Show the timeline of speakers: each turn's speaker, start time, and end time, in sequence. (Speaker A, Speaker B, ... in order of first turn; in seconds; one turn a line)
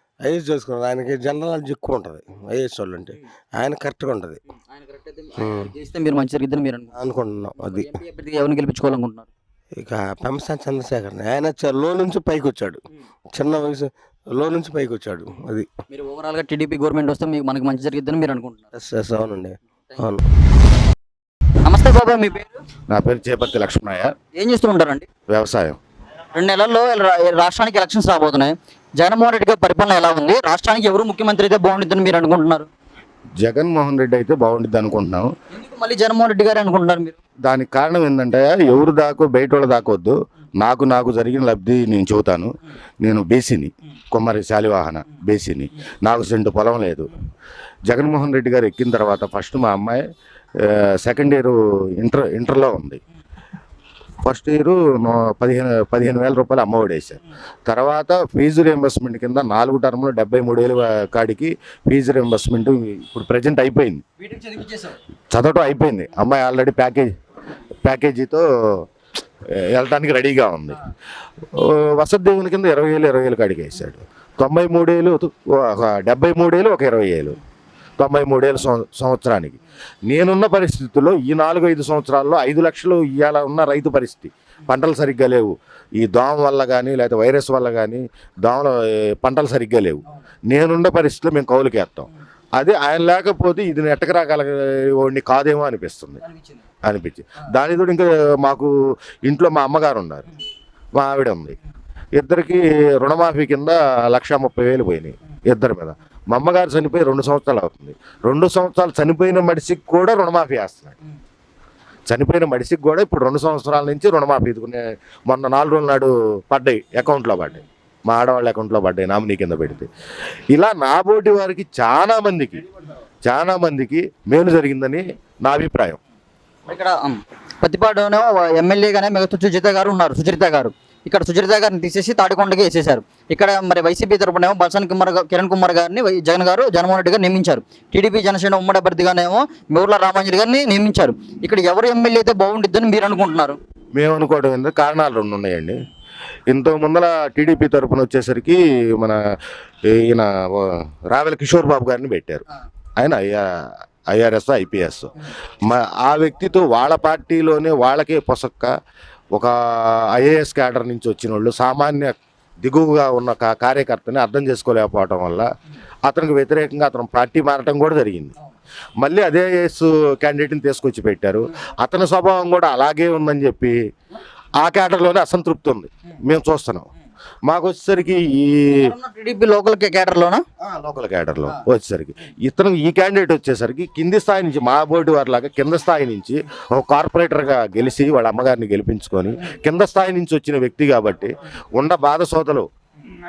Speaker A: 0.2-4.4
Speaker B: 4.8-6.9
Speaker A: 7.0-7.9
Speaker B: 7.6-9.3
Speaker A: 9.8-12.8
Speaker A: 13.3-15.7
Speaker B: 15.9-18.7
Speaker A: 18.8-20.2
Speaker B: 21.6-22.6
Speaker C: 22.9-24.1
Speaker B: 24.3-25.1
Speaker C: 25.3-25.8
Speaker B: 26.4-32.7
Speaker C: 33.4-35.3
Speaker B: 35.5-37.2
Speaker C: 37.5-42.5
Speaker C: 43.0-47.1
Speaker C: 47.9-50.0
Speaker C: 50.6-53.0
Speaker C: 54.2-64.0
Speaker B: 64.2-65.0
Speaker C: 65.3-67.1
Speaker C: 67.8-68.8
Speaker C: 69.5-70.8
Speaker C: 71.5-77.4
Speaker C: 78.0-96.2
Speaker C: 96.8-98.7
Speaker C: 99.3-100.3
Speaker C: 101.0-101.6
Speaker C: 102.2-111.0
Speaker C: 112.1-119.9
Speaker C: 120.5-122.6
Speaker C: 123.2-126.0
Speaker B: 126.7-143.6
Speaker C: 143.9-145.8
Speaker C: 146.5-149.2
Speaker C: 149.9-152.4
Speaker C: 153.0-153.5
Speaker C: 154.1-158.7
Speaker C: 160.1-165.5
Speaker C: 166.1-168.3
Speaker C: 169.0-173.8
Speaker C: 174.6-176.9
Speaker C: 177.5-178.8
Speaker B: 178.8-180.4
Speaker C: 180.6-192.7